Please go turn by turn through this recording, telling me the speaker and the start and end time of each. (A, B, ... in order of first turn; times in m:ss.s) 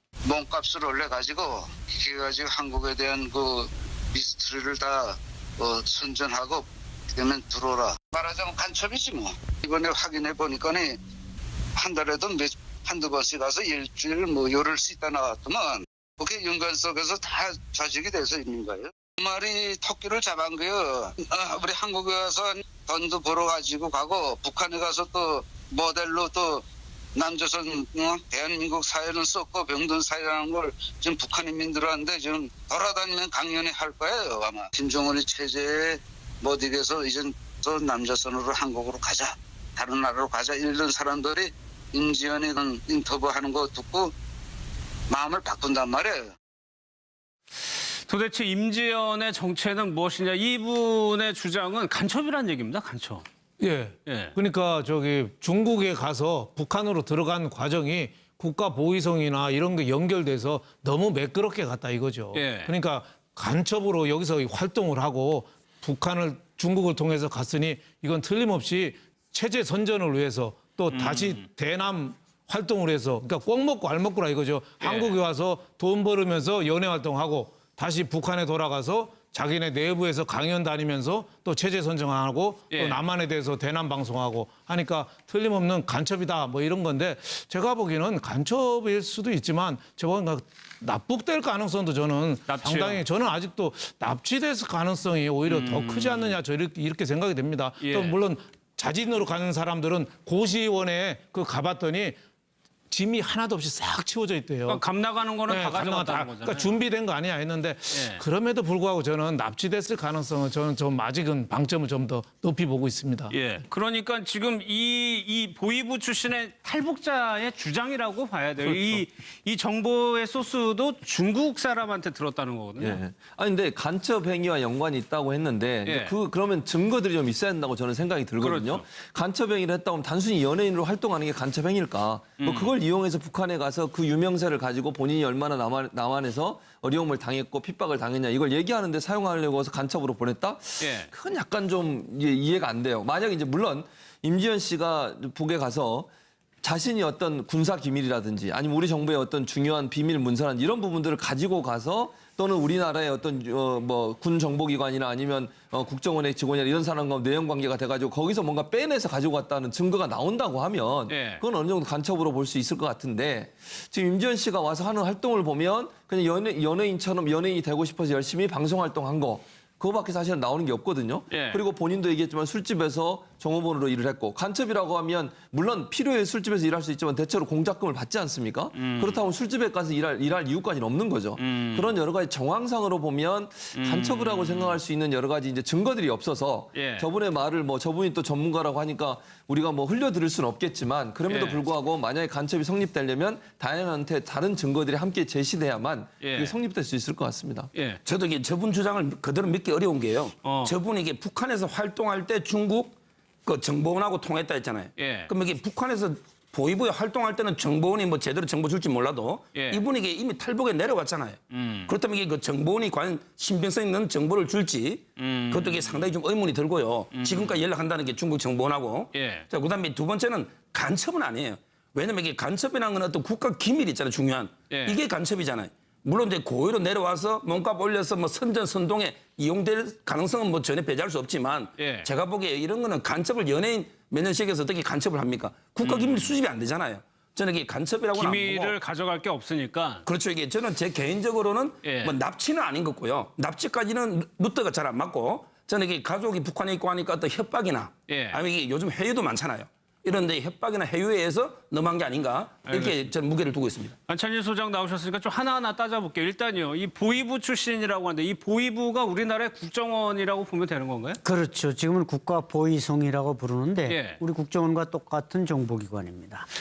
0:00.2-0:11.0 A
0:11.8-0:26.6 A
0:27.2-0:44.1 A
0:45.1-0:46.3 A
0:47.7-0:53.2 B
0:53.6-1:42.2 C
0:54.0-0:54.3 B
1:02.3-1:02.7 B
1:10.9-1:11.4 B
1:14.8-1:15.2 B
1:22.7-1:23.0 B
1:32.5-1:33.0 B
1:35.5-1:36.4 B
1:37.8-1:38.2 B
1:42.9-1:44.8 C
1:44.7-1:46.8 B
1:45.5-1:53.4 C
1:47.9-1:48.2 B
1:53.3-2:03.0 B
2:02.8-2:26.1 D
2:05.8-2:06.1 B
2:08.4-2:08.8 B
2:12.4-2:12.7 B
2:20.8-2:21.1 B
2:26.6-3:17.7 D
2:41.1-2:41.4 B
2:51.3-2:51.6 B
2:58.7-2:59.2 B
3:01.4-3:01.9 B
3:03.7-3:04.8 B
3:06.7-3:07.1 B
3:11.3-3:11.6 B
3:16.2-3:16.5 B
3:17.7-3:18.0 B
3:18.0-3:58.7 E
3:20.4-3:20.7 B
3:25.0-3:25.3 B
3:29.5-3:29.8 B
3:31.5-3:31.9 B
3:35.2-3:36.0 B
3:37.1-3:37.6 B
3:39.1-3:39.5 B
3:44.7-3:45.0 B
3:51.8-3:52.1 B
3:55.8-3:56.3 B
3:58.2-4:00.0 B
4:00.0-4:13.9 E
4:01.8-4:02.1 B
4:08.1-4:08.4 B
4:12.7-4:13.1 B
4:14.1-4:21.2 B
4:21.2-4:26.5 F
4:23.9-4:24.2 B